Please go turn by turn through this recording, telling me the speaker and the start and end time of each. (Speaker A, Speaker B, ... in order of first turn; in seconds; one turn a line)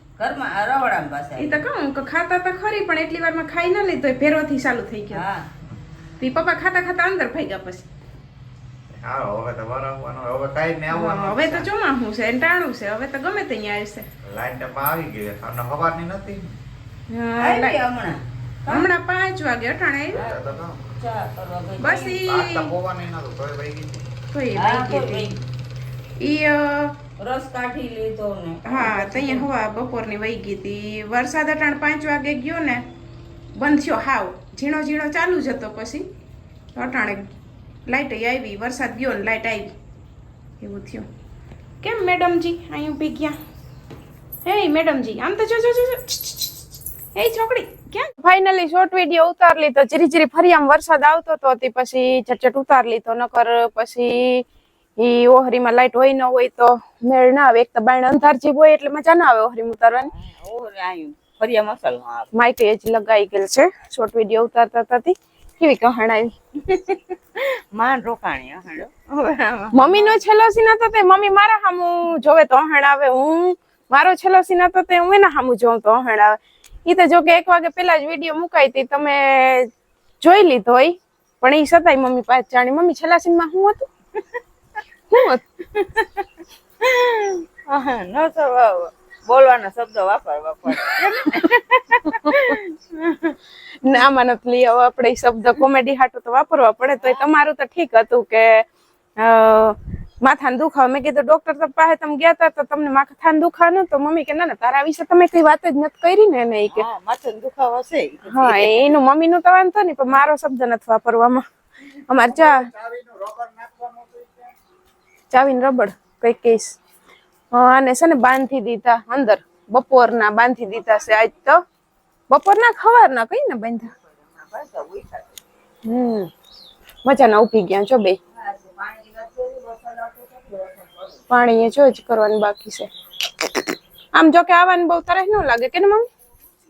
Speaker A: 0.2-1.6
Speaker B: 1.4-5.2
Speaker A: 5.1-5.5
Speaker B: 6.2-7.9
Speaker C: 8.9-11.7
Speaker B: 10.9-14.1
Speaker C: 14.2-16.6
Speaker B: 17.1-17.8
Speaker A: 17.4-18.9
Speaker B: 18.7-20.2
Speaker C: 20.1-20.9
Speaker A: 20.1-22.2
Speaker B: 21.8-22.7
Speaker C: 22.2-24.1
Speaker B: 24.3-25.4
Speaker A: 24.5-25.4
Speaker B: 26.2-27.0
Speaker A: 27.2-29.5
Speaker B: 28.6-32.8
Speaker B: 33.6-36.0
Speaker B: 36.8-37.3
Speaker B: 37.9-39.7
Speaker B: 40.6-41.0
Speaker B: 41.8-43.4
Speaker B: 44.4-54.4
Speaker B: 55.0-60.1
Speaker A: 60.1-62.3
Speaker B: 62.3-66.3
Speaker A: 66.6-70.2
Speaker B: 69.7-79.7
Speaker B: 80.2-83.9
Speaker B: 85.1-85.4
Speaker A: 85.6-86.2
Speaker A: 86.8-93.3
Speaker B: 92.1-92.5
Speaker B: 93.8-98.6
Speaker B: 99.2-106.9
Speaker A: 106.7-108.7
Speaker B: 108.3-111.4
Speaker B: 112.1-112.7
Speaker B: 115.3-116.8
Speaker B: 117.5-121.6
Speaker B: 122.3-123.9
Speaker A: 124.1-125.4
Speaker B: 125.8-126.3
Speaker B: 127.0-128.2
Speaker A: 128.4-131.0
Speaker B: 131.3-136.1